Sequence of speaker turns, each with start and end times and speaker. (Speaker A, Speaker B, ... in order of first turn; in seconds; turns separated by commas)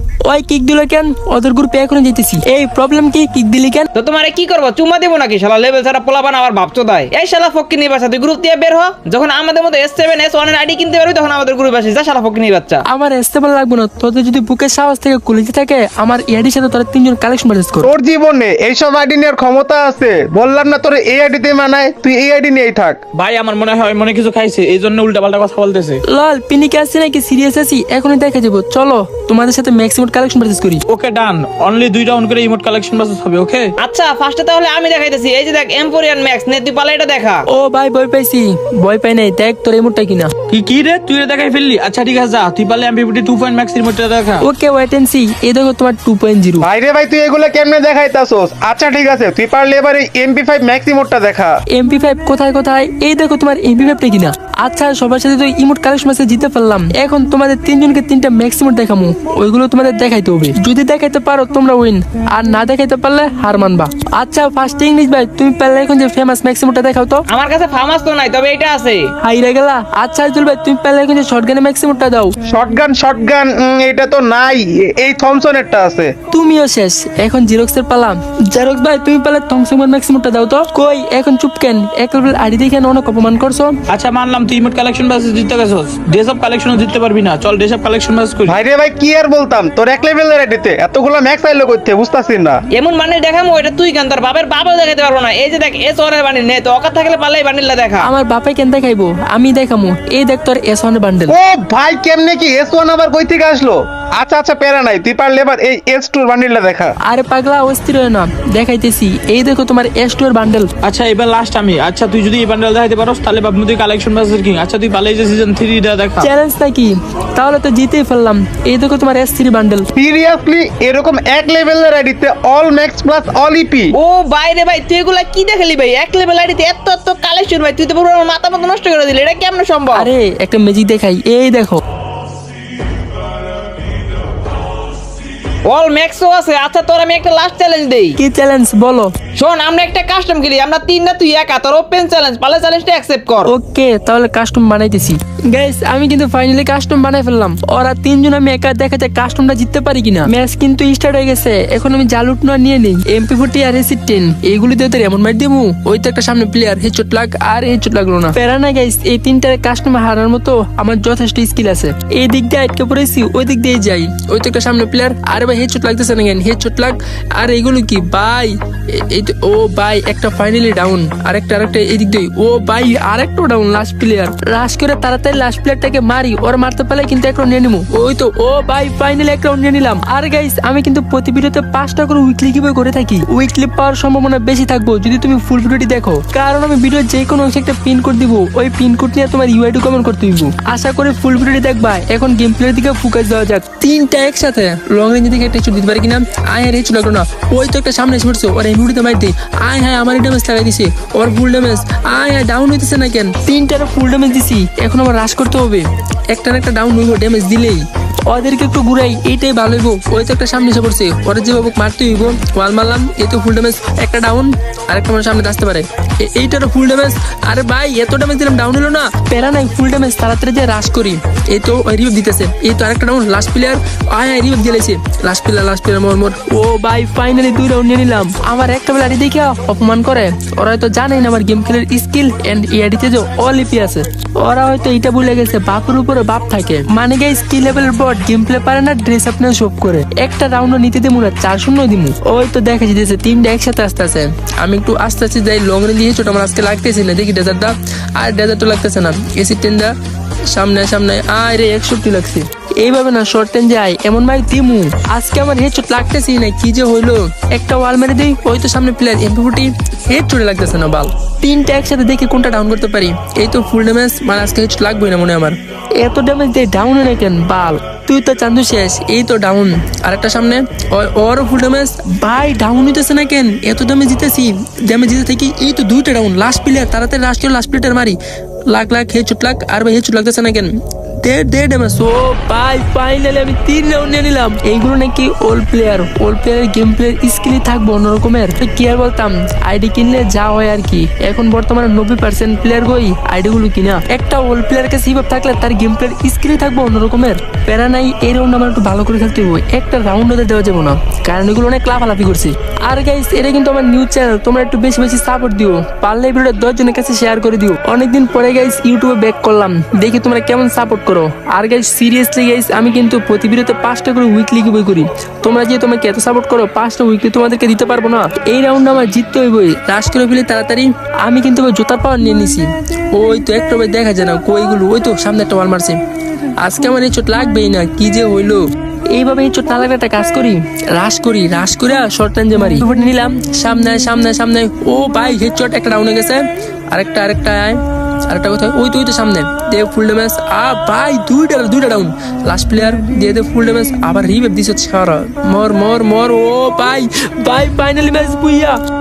Speaker A: 0.2-3.9, Speaker B: 4.0-12.8, Speaker A: 12.9-17.9, Speaker C: 17.8-23.0, Speaker D: 23.1-26.0, Speaker A: 26.1-30.8, Speaker D: 30.9-33.7, Speaker B: 33.8-37.4, Speaker A: 37.5-40.3, Speaker D: 40.5-44.4, Speaker A: 44.4-46.6, Speaker C: 46.6-51.6, Speaker A: 51.7-67.2, Speaker B: 67.3-69.1, Speaker A: 69.2-72.3, Speaker C: 72.5-76.1, Speaker A: 76.3-83.8, Speaker D: 83.9-88.5, Speaker C: 88.5-92.6, Speaker B: 92.7-98.1, Speaker A: 98.0-101.3, Speaker C: 101.3-106.9, Speaker A: 107.0-110.7, Speaker D: 110.8-116.3, Speaker A: 116.2-119.9, Speaker C: 120.0-123.9, Speaker B: 124.0-130.1, Speaker A: 129.9-131.8, Speaker B: 135.6-138.2, Speaker A: 138.2-139.1, Speaker B: 139.3-143.5, Speaker A: 143.4-249.9, Speaker A: 250.5-278.2, Speaker A: 278.7-326.0, Speaker A: 326.6-328.6, Speaker A: 329.1-348.8